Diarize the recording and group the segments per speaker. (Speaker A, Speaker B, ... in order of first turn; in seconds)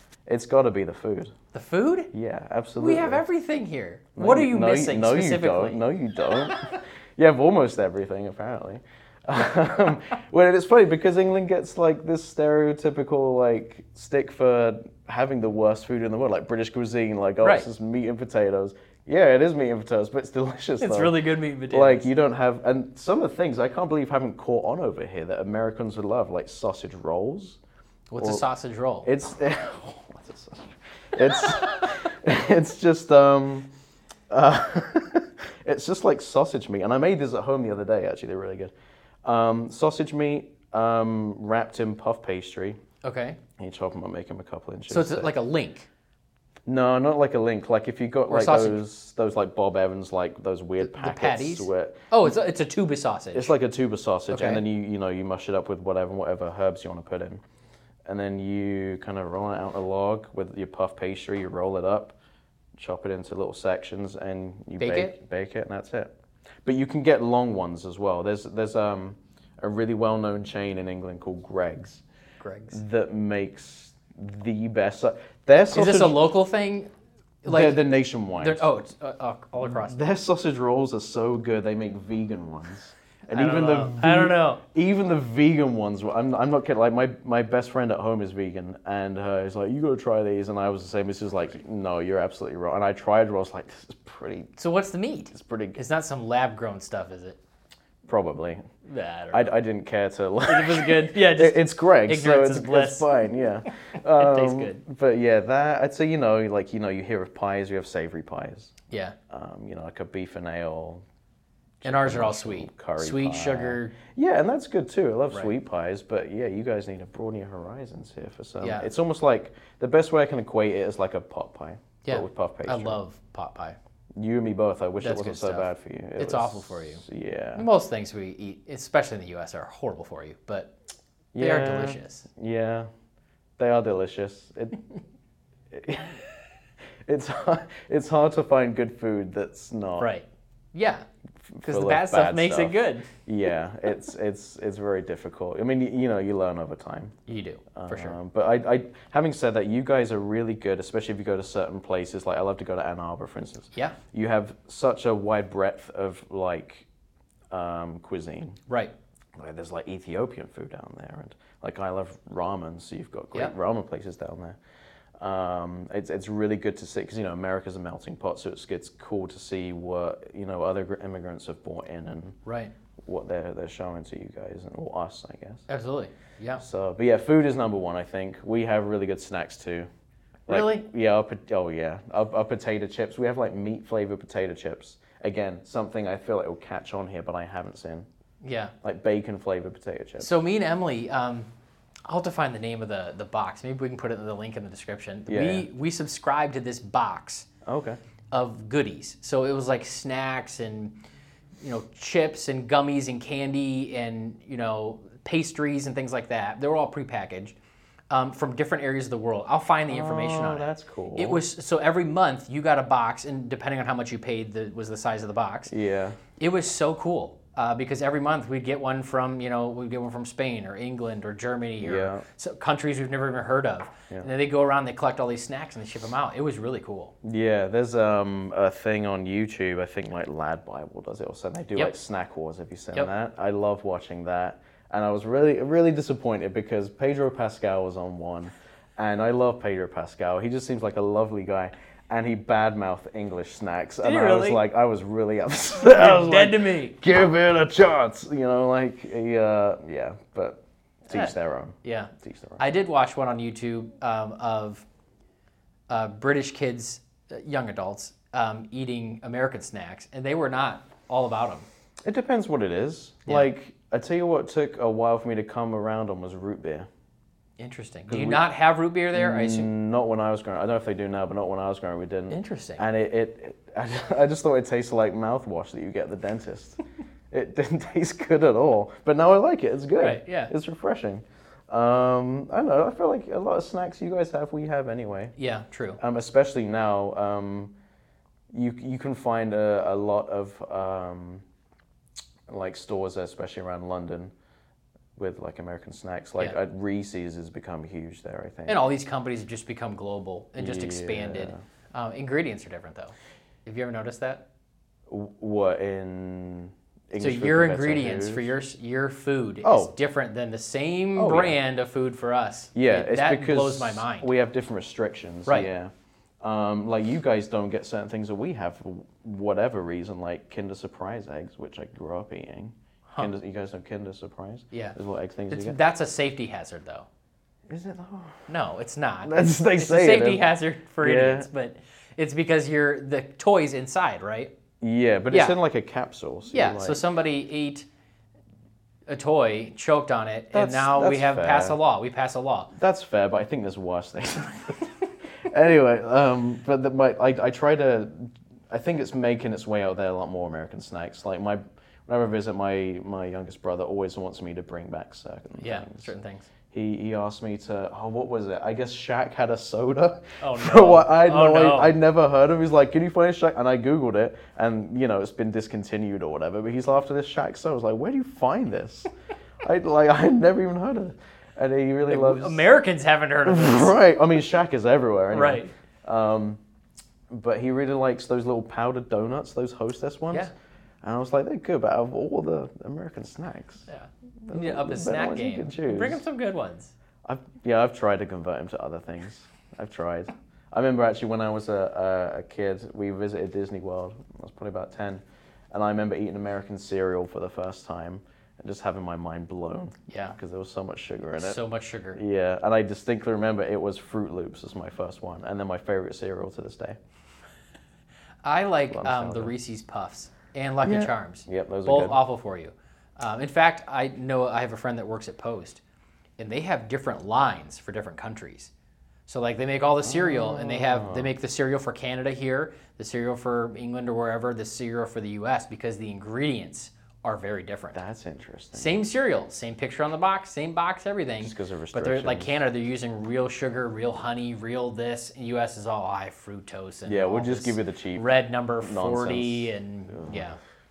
Speaker A: 0.3-1.3, 2.1-3.2, 4.2-21.1, 21.7-27.6, 28.2-28.4, 29.1-33.7, 34.3-42.8, 43.6-45.3, 46.7-52.0, 53.3-57.4, 58.1-62.2, 62.8-66.1, 66.7-72.0, 72.7-76.2, 77.5-78.7, 79.6-94.5, 95.3-95.8, 98.0-98.6, 99.3-108.7, 109.3-111.0, 111.8-123.0, 124.2-127.7, 131.3-132.9, 133.6-134.8, 135.7-136.2, 137.1-140.1, 141.5-147.2, 147.8-156.9, 157.5-158.6, 159.4-164.6, 165.2-172.4, 173.0-175.6, 176.6-179.9, 180.5-188.1, 188.8-190.3, 195.3-195.7, 197.7-198.0, 209.9-211.4, 215.7-216.2, 221.8-222.2, 227.2-252.6, 262.0-266.9, 268.1-268.5, 269.1-285.3, 286.0-287.7, 288.5-291.4, 292.5-294.3, 295.2-298.8, 300.6-301.6, 305.1-308.5, 309.6-309.9, 311.2-311.6, 312.8-325.8, 327.7-328.4, 329.2-330.5, 331.0-331.5, 334.8-337.0, 340.5-341.8, 342.7-356.1, 356.7-369.1, 369.6-372.7, 373.4-376.6, 377.3-380.5, 381.0-383.9, 384.4-386.2, 387.2-401.6, 402.1-407.0, 408.9-409.5, 410.8-412.2, 420.0-421.3, 427.9-429.0, 431.4-432.6, 437.1-440.5
Speaker B: 1.5-2.1, 2.8-5.8, 17.4-17.7, 20.8-22.1, 28.1-29.1, 43.0-43.4, 44.9-45.9, 48.3-48.8, 50.8-53.5, 54.3-54.6, 64.8-65.2, 72.4-72.8, 75.7-76.9, 77.4-77.8, 78.4-80.0, 83.3-84.6, 94.6-97.4, 98.8-99.5, 100.5-103.1, 104.1-104.8, 108.9-109.2, 111.8-114.0, 118.6-118.9, 122.0-123.8, 125.0-127.0, 127.6-130.7, 131.4-132.3, 140.0-141.1, 141.6-143.1, 147.3-148.2, 158.7-158.9, 172.5-172.7, 175.7-176.6, 180.5-180.8, 188.4-188.7, 190.2-191.5, 192.1-197.5, 198.3-201.0, 201.6-207.6, 208.1-215.7, 216.4-227.1, 244.0-244.6, 245.9-247.0, 251.8-254.8, 255.9-261.7, 267.6-269.7, 272.3-272.8, 280.0-280.5, 285.4-286.0, 298.7-304.4, 307.2-314.3, 324.7-325.0, 325.5-327.1, 328.5-334.5, 336.5-337.9, 339.1-342.7, 355.6-356.5, 360.4-361.9, 372.1-374.0, 375.3-375.7, 383.9-386.9, 400.1-400.4, 401.4-402.2, 408.4-415.8, 416.4-418.7, 419.3-428.0, 428.7-440.6